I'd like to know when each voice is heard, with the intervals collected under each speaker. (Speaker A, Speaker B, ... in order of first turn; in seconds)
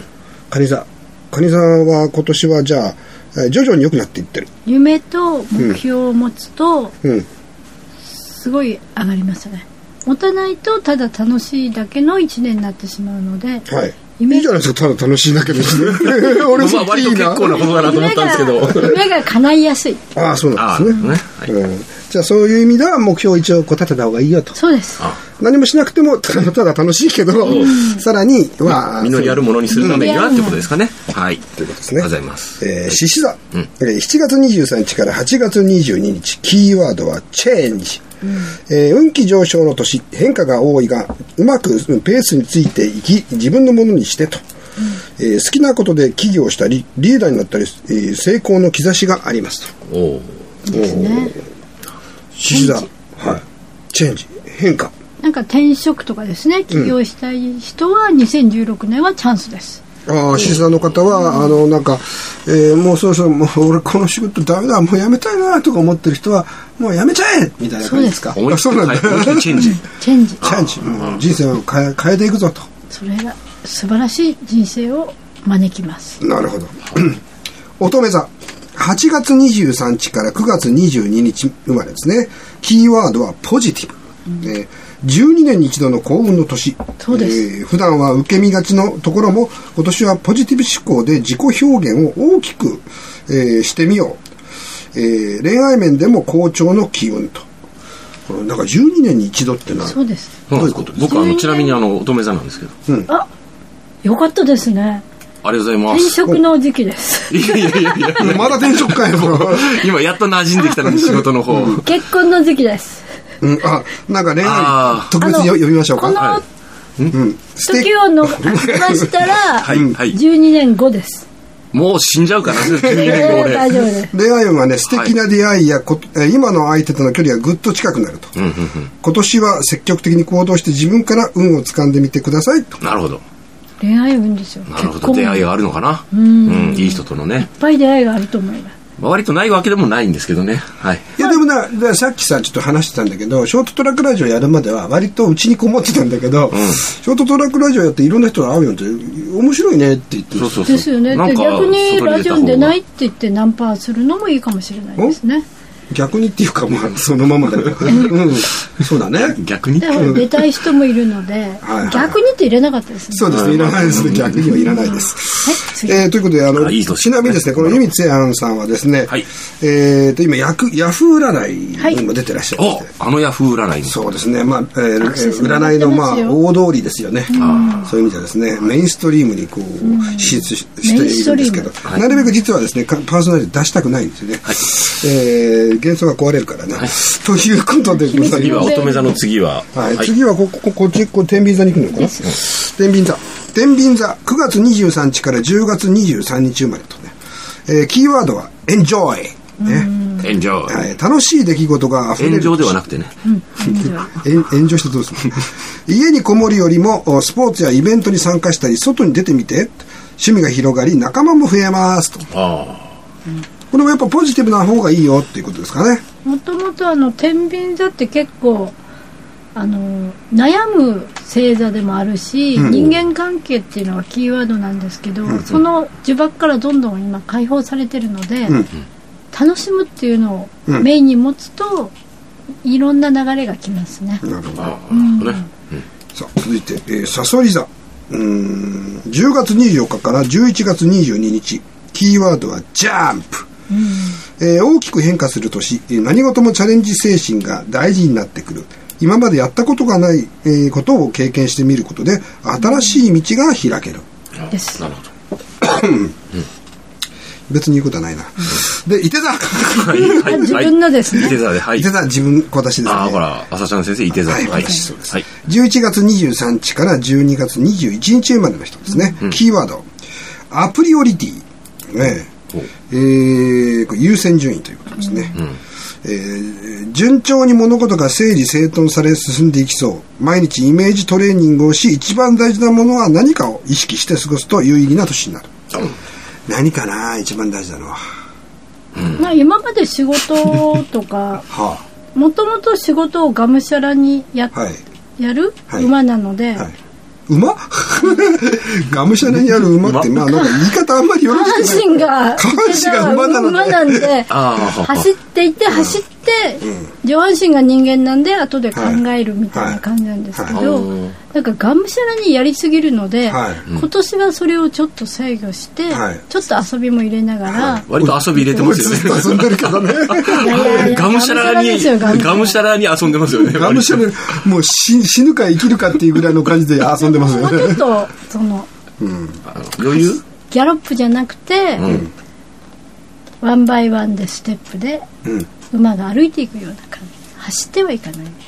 Speaker A: 0.5-4.5, 13.7-17.8, 20.1-24.6, 25.4-30.2, 31.6-38.0, 38.7-44.4, 45.2-49.7, 50.7-51.5, 52.3-54.9, 60.1-69.7, 70.4-72.7, 76.2-77.2, 77.8-94.2, 94.9-97.5, 98.3-100.0, 100.5-101.0, 108.2-109.8, 110.8-111.8, 113.4-116.2, 117.1-120.0, 122.5-128.3, 129.0-132.8, 141.2-150.8, 155.9-159.4, 159.9-160.3, 161.6-162.2, 163.1-172.9, 173.8-188.8, 189.8-197.1, 197.7-199.9, 200.7-202.8, 203.7-212.3, 213.7-216.0, 222.6-223.0, 225.3-225.6, 234.2-234.8, 236.1-243.5, 244.4-254.0, 255.6-256.2, 257.5-260.6, 261.2-263.2, 264.2-269.9, 270.5-272.3, 272.9-275.4, 276.0-285.8, 286.5-288.0, 291.5-291.8, 294.5-294.8, 297.3-304.2, 305.7-306.0, 308.7-309.0, 309.5-309.8, 310.4-310.6, 313.3-313.6, 315.9-316.3, 317.5-320.9, 323.4-327.9, 329.0-329.4, 331.9-332.1
Speaker B: 4.7-6.9, 8.1-14.6, 17.4-20.0, 24.6-25.0, 27.4-28.1, 29.7-30.7, 38.2-38.5, 50.6-51.4, 52.5-52.9, 55.2-59.8, 61.1-61.6, 67.8-68.3, 69.5-70.4, 72.9-76.2, 87.0-87.4, 99.8-100.4, 101.1-101.8, 104.0-105.0, 105.9-108.2, 110.6-113.0, 115.2-116.4, 117.7-121.3, 122.8-124.1, 133.8-135.5, 136.1-138.8, 150.7-155.4, 159.8-163.4, 164.5-166.1, 175.0-176.4, 177.3-177.9, 179.8-182.3, 187.9-189.2, 191.9-192.3, 199.6-200.3, 203.2-204.2, 216.2-218.8, 219.6-228.7, 229.3-231.9, 232.6-234.2, 234.9-235.5, 243.7-244.2, 252.6-253.0, 254.5-254.8, 260.0-261.4, 264.5-264.9, 268.9-269.2, 275.0-275.4, 289.2-291.5, 292.1-294.6, 295.2-296.7, 298.0-298.3, 300.3-300.7, 301.3-317.9, 320.3-322.6, 327.0-328.7, 329.8-332.0, 333.4-335.1, 335.7-338.4
Speaker C: 15.9-19.0, 20.6-21.5, 27.4-27.8, 28.7-31.5, 32.0-33.0, 49.9-50.4, 60.3-60.8, 68.4-69.8, 70.4-71.3, 100.5-102.7, 105.4-106.2, 107.3-111.8, 114.4-115.2, 116.2-116.4, 119.6-120.2, 121.7-123.8, 124.9-125.1, 128.4-128.9, 132.8-133.2, 134.7-137.5, 139.0-141.1, 146.5-146.8, 150.3-152.8, 157.7-158.3, 159.1-160.4, 163.3-164.7, 166.5-167.9, 172.6-174.0, 177.4-177.9, 188.3-190.1, 200.2-200.8, 202.2-203.1, 212.3-213.0, 222.6-222.9, 234.6-235.8, 254.4-255.1, 259.8-261.9, 262.8-265.3, 288.9-289.3, 299.3-300.2, 304.3-305.1, 310.5-311.2, 317.9-324.1, 329.5-330.2, 331.8-332.1